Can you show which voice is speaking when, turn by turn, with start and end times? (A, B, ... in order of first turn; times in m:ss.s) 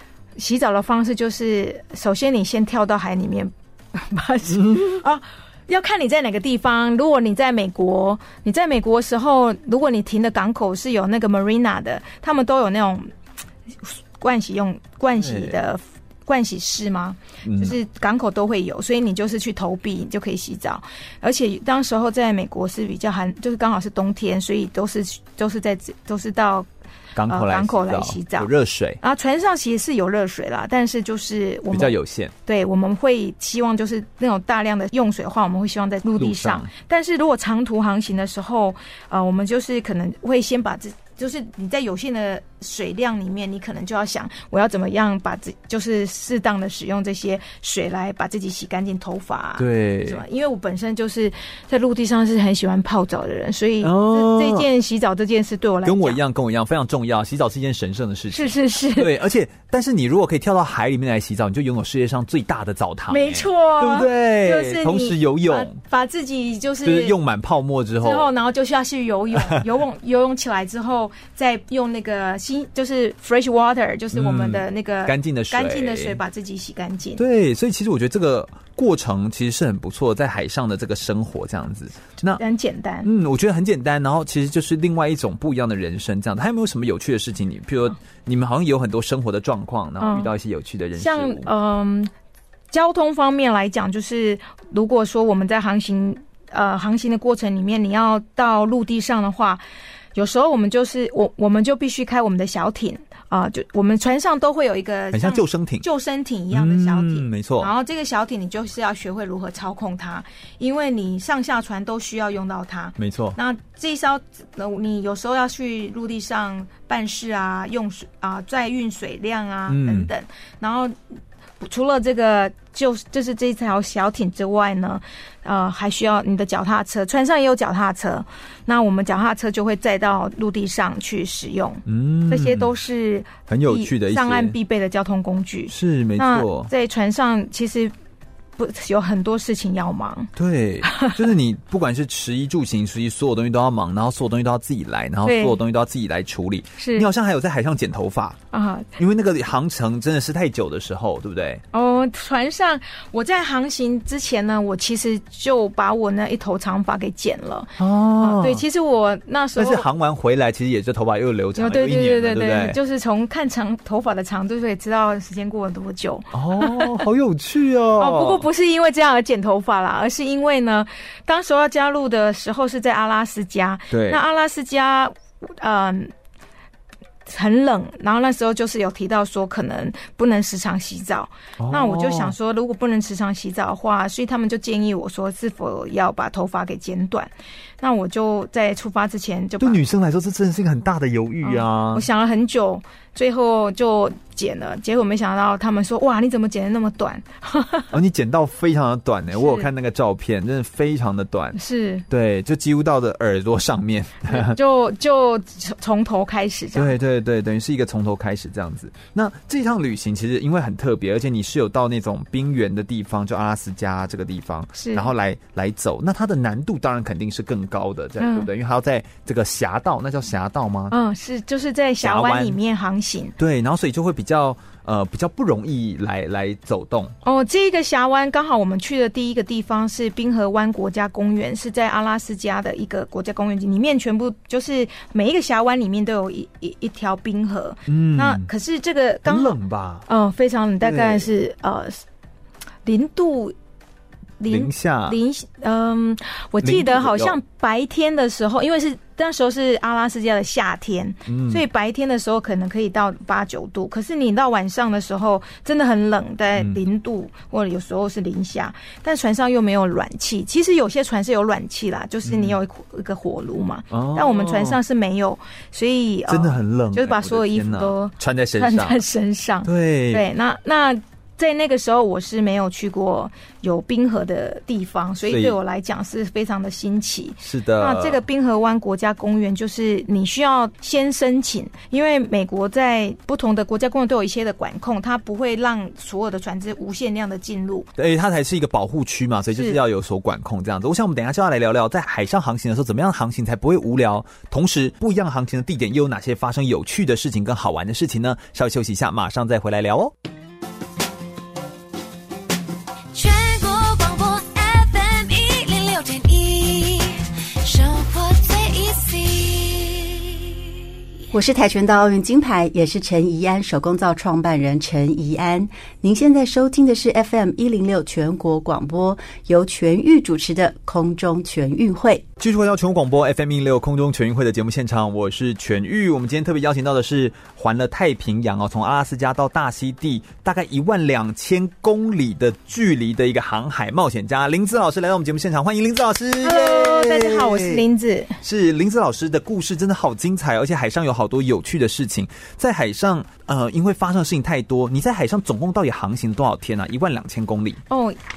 0:00.4-0:13.1 A
0:04.5-0:05.0 B
0:13.8-0:26.7 A
0:15.2-0:15.6 B
0:17.4-0:17.8 B
0:27.2-0:29.0 B
0:27.3-0:28.5 A
0:29.0-0:56.2 A
0:31.7-0:32.3 B
0:36.2-0:36.7 B
0:49.6-0:50.2 B
0:53.8-0:54.7 B
0:55.8-1:05.8 B
0:58.3-0:59.1 A
1:03.1-1:07.2 A
1:06.8-1:08.3 B
1:08.0-1:17.2 A
1:09.4-1:09.7 B
1:14.1-1:16.2 B
1:17.2-1:22.4 B
1:22.4-1:23.1 A
1:23.0-1:31.5 B
1:30.0-1:30.3 A
1:31.0-1:32.1 A
1:32.7-1:39.6 A
1:40.2-2:01.0 A
1:45.1-1:45.8 B
1:46.5-1:47.7 B
1:53.0-1:53.4 B
1:59.7-2:00.1 B
2:01.6-2:17.9 A
2:11.9-2:12.7 B
2:13.5-2:14.6 B
2:15.7-2:16.7 B
2:18.6-2:20.3 A
2:20.4-2:28.4 B
2:20.8-2:21.2 A
2:25.2-2:25.6 A
2:26.8-2:27.1 A
2:28.5-2:28.9 A
2:29.0-2:31.6 B
2:31.7-2:39.8 A
2:37.8-2:38.6 B
2:39.6-2:42.8 B
2:41.6-2:47.0 A
2:46.3-2:48.5 B
2:48.0-2:56.1 A
2:53.9-2:54.2 B
2:57.3-3:07.3 A
3:01.6-3:02.4 B
3:07.8-3:09.8 A
3:09.6-3:12.0 B
3:11.4-3:17.9 A
3:17.9-3:21.6 B
3:19.3-3:19.7 A
3:21.6-3:22.0 A
3:22.1-3:24.6 B
3:24.3-3:26.9 A
3:26.8-3:41.0 B
3:34.8-3:35.1 A
3:38.2-3:38.5 A
3:40.9-3:43.3 A
3:42.0-3:42.6 B
3:43.4-3:47.2 B
3:47.2-3:59.6 A
3:57.9-3:58.5 B
3:59.3-4:00.1 B
4:00.1-4:02.0 A
4:00.8-4:01.3 B
4:02.9-4:03.6 A
4:04.4-4:47.9 A
4:04.5-4:05.2 B
4:06.6-4:07.4 B
4:11.3-4:11.6 B
4:22.2-4:22.6 B
4:23.9-4:24.8 B
4:26.3-4:29.0 B
4:29.6-4:30.3 B
4:35.3-4:35.6 B
4:37.4-4:38.2 B
4:48.0-5:00.1 B
4:49.5-4:49.8 A
5:03.1-5:10.6 C
5:11.3-5:22.2 D
5:22.4-5:37.8 B
5:36.4-5:38.4 A
5:38.4-5:47.8 B
5:47.9-5:48.2 A